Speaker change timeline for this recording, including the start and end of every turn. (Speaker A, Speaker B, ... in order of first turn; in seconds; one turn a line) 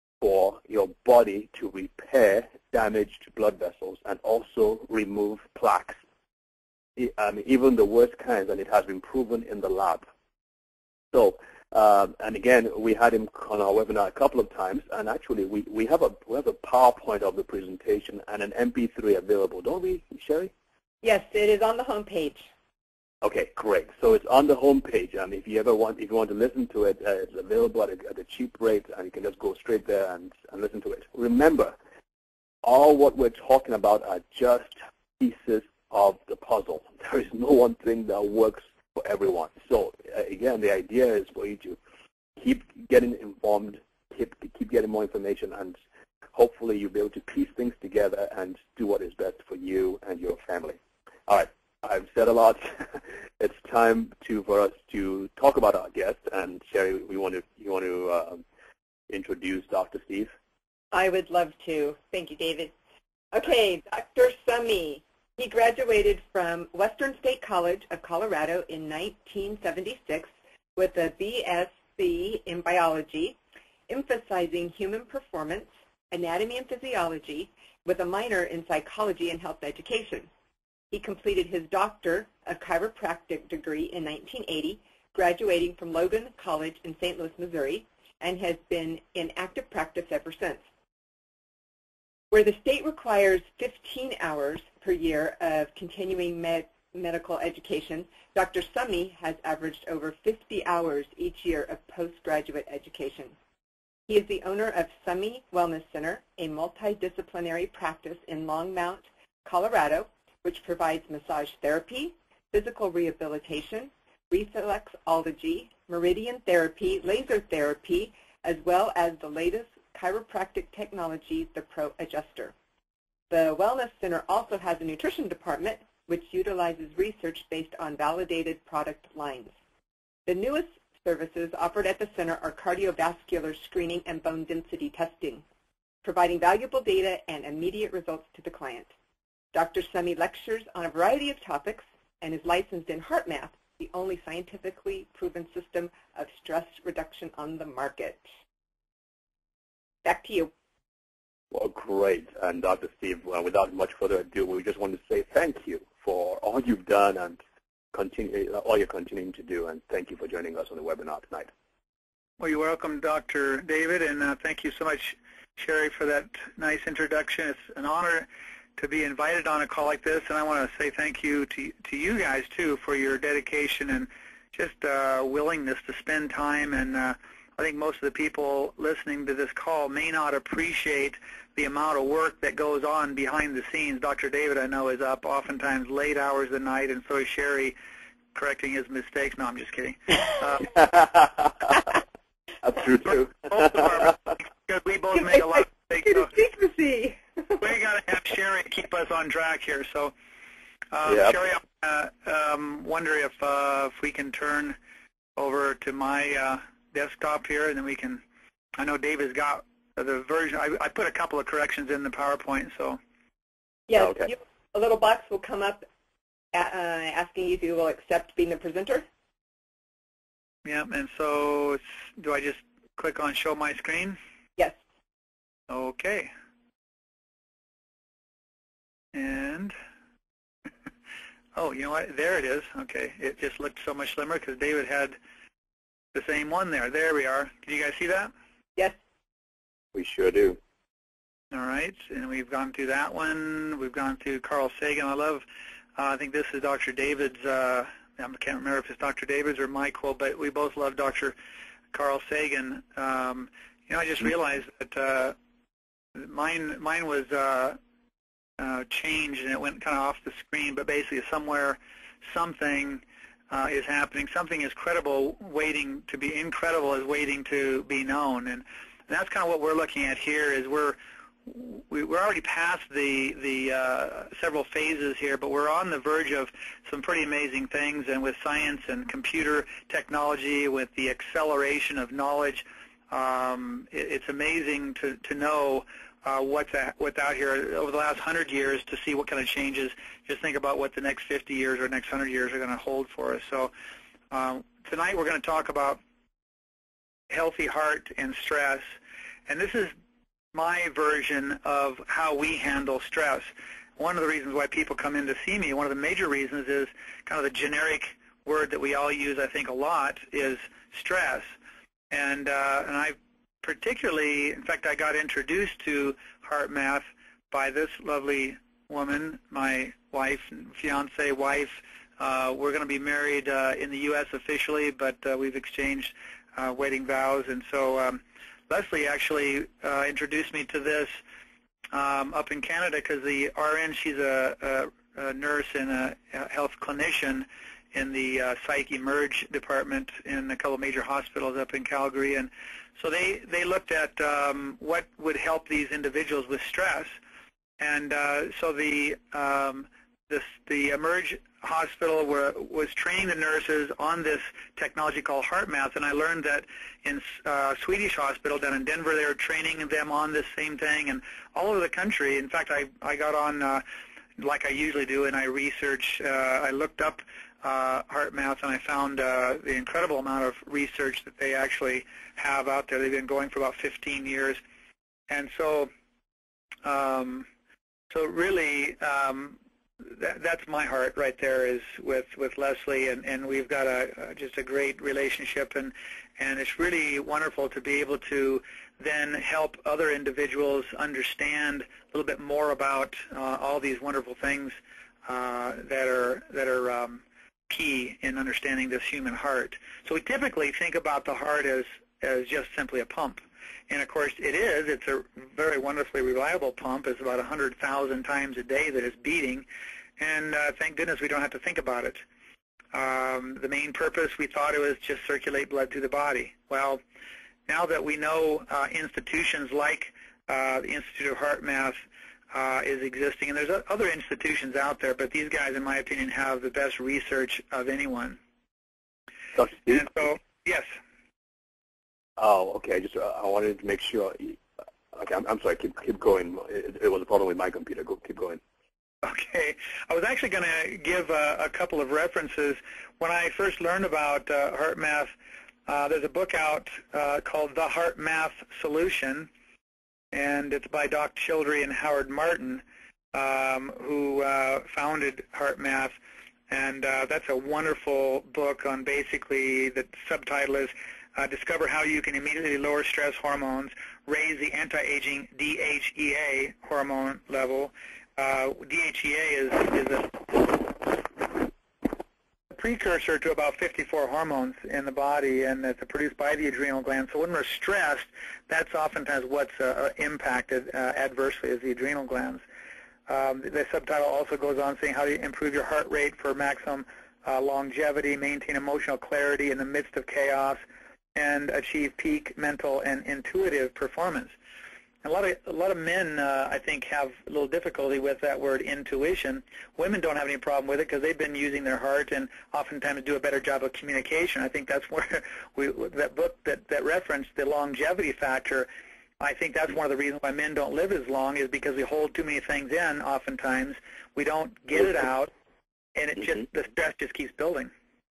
Speaker A: 0.2-6.0
Speaker A: 7.0-10.1
Speaker A: 11.1-20.5
Speaker B: 21.0-22.5
Speaker A: 23.2-31.7
Speaker A: 32.6-41.8
Speaker A: 42.4-45.8
Speaker A: 46.3-58.4
Speaker A: 59.1-60.3
Speaker B: 60.9-62.7
Speaker B: 63.3-73.4
Speaker B: 73.9-80.3
Speaker B: 80.9-90.6
Speaker B: 92.3-103.3
Speaker B: 104.1-122.5
Speaker B: 123.3-129.5
Speaker B: 130.2-135.4
Speaker B: 136.0-138.9
Speaker B: 139.5-148.2
Speaker B: 150.0-150.5
Speaker A: 151.5-157.4
Speaker A: 157.9-161.5
Speaker C: 162.4-187.8
Speaker C: 188.3-190.7
Speaker A: 190.8-191.5
Speaker A: 192.6-193.8
Speaker C: 193.0-196.3
Speaker B: 195.2-197.6
Speaker C: 197.6-200.1
Speaker C: 200.9-204.8
Speaker A: 201.1-201.3
Speaker C: 205.3-208.2
Speaker C: 208.8-213.0
Speaker B: 213.9-215.8
Speaker A: 214.0-214.3
Speaker B: 216.5-219.1
Speaker C: 220.6-224.2
Speaker C: 225.7-226.3
Speaker C: 229.1-229.7
Speaker C: 231.6-235.2
Speaker C: 236.1-238.3
Speaker A: 239.9-240.6
Speaker C: 241.5-245.4
Speaker C: 246.0-251.3
Speaker C: 251.9-255.3
Speaker C: 256.1-257.8
Speaker C: 258.6-293.7
Speaker C: 294.3-296.0
Speaker C: 297.3-298.9
Speaker C: 299.5-299.9
Speaker C: 300.5-311.5
Speaker C: 312.1-331.2
Speaker C: 331.9-347.2
Speaker C: 347.8-363.8
Speaker C: 364.4-374.6
Speaker C: 375.3-375.9
Speaker C: 376.8-377.5
Speaker C: 378.1-409.6
Speaker C: 410.2-412.2
Speaker C: 412.9-417.0
Speaker C: 417.7-422.0
Speaker C: 422.5-428.4
Speaker A: 429.5-430.1
Speaker C: 429.9-430.9
Speaker A: 432.4-434.6
Speaker A: 435.1-438.6
Speaker C: 439.2-445.3
Speaker C: 445.9-449.5
Speaker C: 450.3-452.8
Speaker C: 453.3-456.1
Speaker C: 456.7-471.7
Speaker C: 472.7-482.6
Speaker C: 483.3-490.8
Speaker C: 491.3-494.5
Speaker C: 495.2-508.9
Speaker C: 509.4-515.5
Speaker C: 516.1-517.9